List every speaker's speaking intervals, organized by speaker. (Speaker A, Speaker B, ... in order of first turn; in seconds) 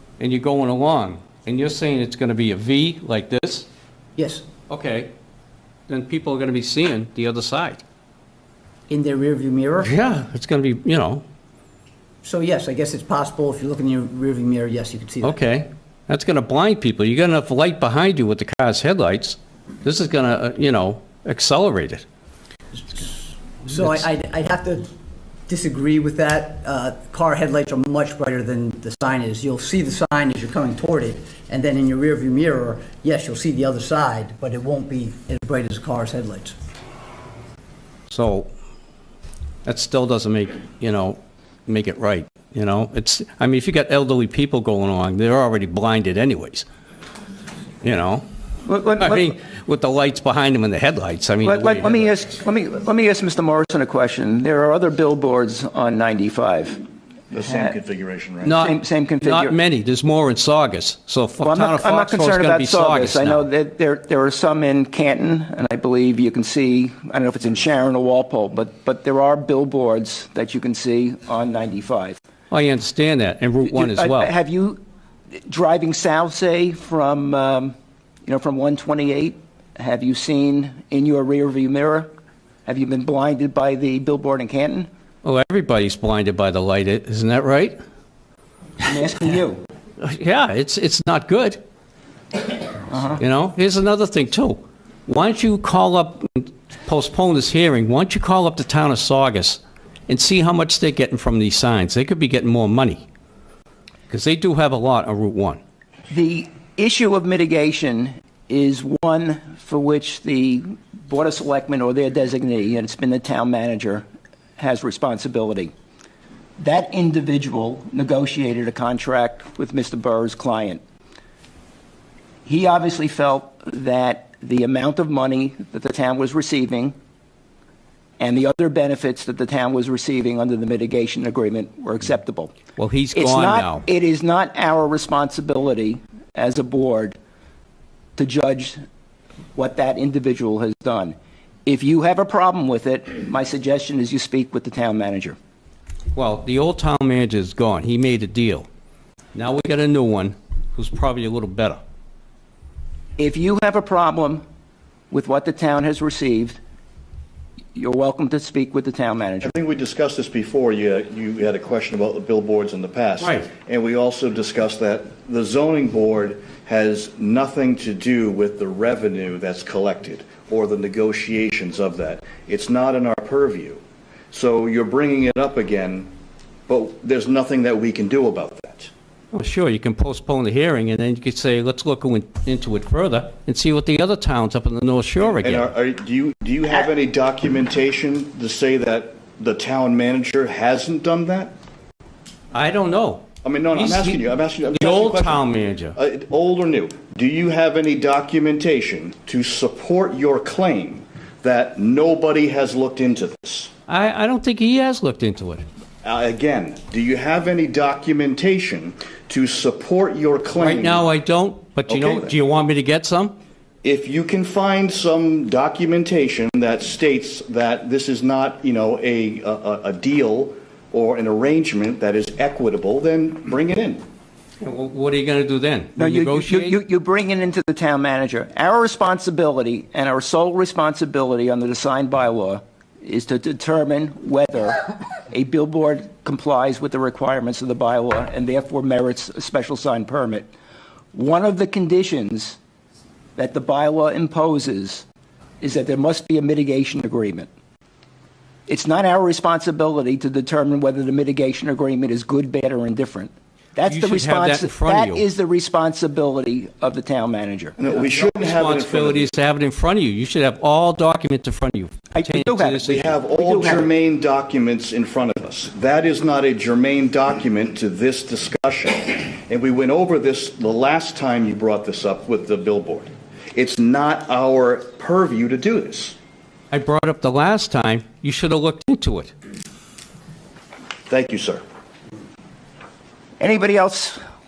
Speaker A: 0.2-3.7, 4.7-5.1, 5.9-7.8, 9.8-11.2, 15.2-22.0, 38.1-38.5, 39.6-46.7, 47.8-48.2, 49.0-52.0, 58.4-63.5, 72.5-74.3, 85.2-87.8, 90.0-91.6, 93.2-103.0, 104.1-105.6, 132.8-133.8, 146.1-148.7, 149.3-151.8, 163.2-163.5, 179.3-185.7, 192.5-196.0, 203.9-205.7, 210.6-213.3, 224.6-226.8, 253.8-255.2, 258.2-263.1, 276.7-279.3
Speaker B: 4.2-4.4, 8.9-9.9, 12.2-15.4, 22.8-24.9, 25.5-36.5
Speaker C: 48.7-49.3, 51.5-56.8, 57.5-57.7, 58.5-59.6, 61.4-72.2, 73.7-74.8, 75.4-77.8, 78.2-82.1, 82.7-84.9, 88.8-89.6, 92.9-93.2, 106.1-114.0, 114.6-115.7, 116.6-120.8, 122.5-126.9, 128.2-132.5, 133.2-137.2, 138.2-138.8, 139.5-141.2, 141.7-145.4, 153.2-154.4, 155.1-156.6, 157.8-159.5, 226.0-240.5, 241.1-242.6, 243.3-245.0, 245.6-247.5, 248.7-257.8, 262.1-263.9, 283.4-284.2
Speaker D: 57.3-58.6, 159.4-176.1, 176.7-178.9, 185.2-191.5, 193.4-203.7, 206.0-211.1, 211.9-212.3, 213.8-224.0, 257.8-259.3, 262.8-276.2, 281.1-281.6